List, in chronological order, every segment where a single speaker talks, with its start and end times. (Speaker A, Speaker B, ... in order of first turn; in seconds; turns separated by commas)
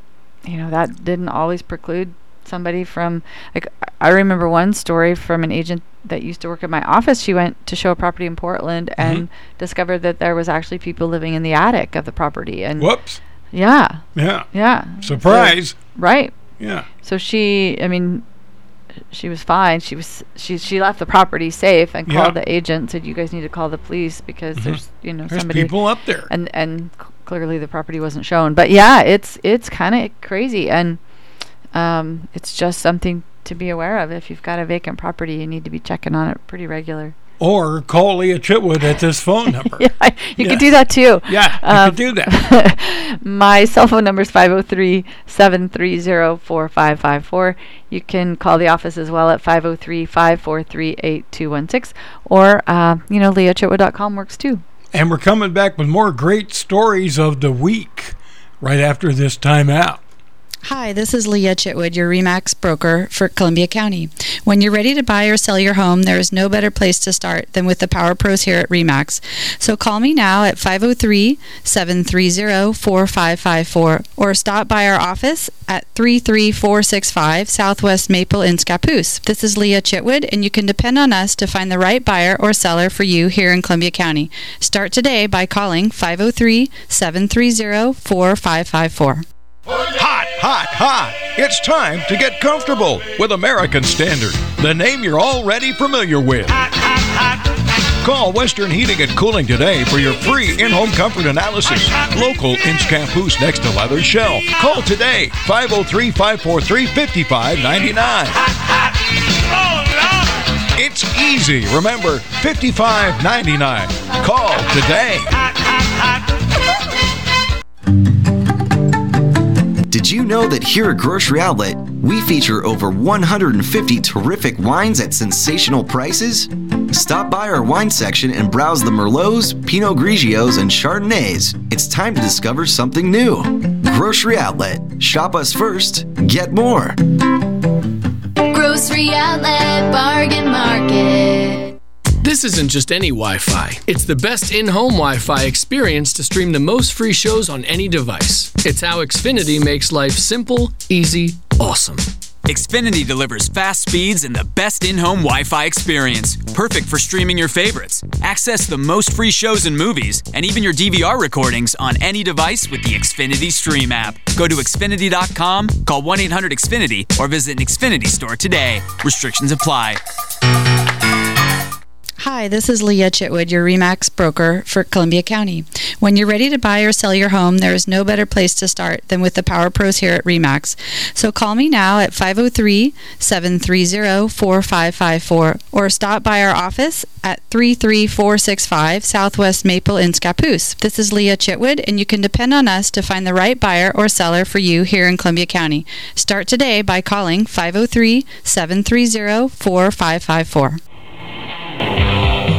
Speaker A: 0.5-12.9, Speaker B: 9.0-9.2, Speaker B: 12.8-13.2, Speaker A: 13.5-16.3, Speaker B: 14.1-14.5, Speaker B: 15.0-15.8, Speaker B: 16.6-16.9, Speaker A: 17.0-18.2, Speaker A: 19.1-25.7, Speaker B: 22.1-22.3, Speaker B: 24.6-26.3, Speaker A: 26.3-31.0, Speaker A: 31.7-37.1, Speaker B: 37.4-39.9, Speaker A: 39.7-54.6, Speaker B: 40.4-40.7, Speaker B: 41.2-42.4, Speaker B: 54.9-60.0, Speaker C: 60.6-89.2, Speaker D: 90.0-96.6, Speaker D: 98.0-108.4, Speaker D: 110.7-115.3, Speaker E: 119.9-137.0, Speaker F: 138.4-141.8, Speaker G: 142.2-152.1, Speaker H: 152.4-170.0, Speaker C: 172.2-200.8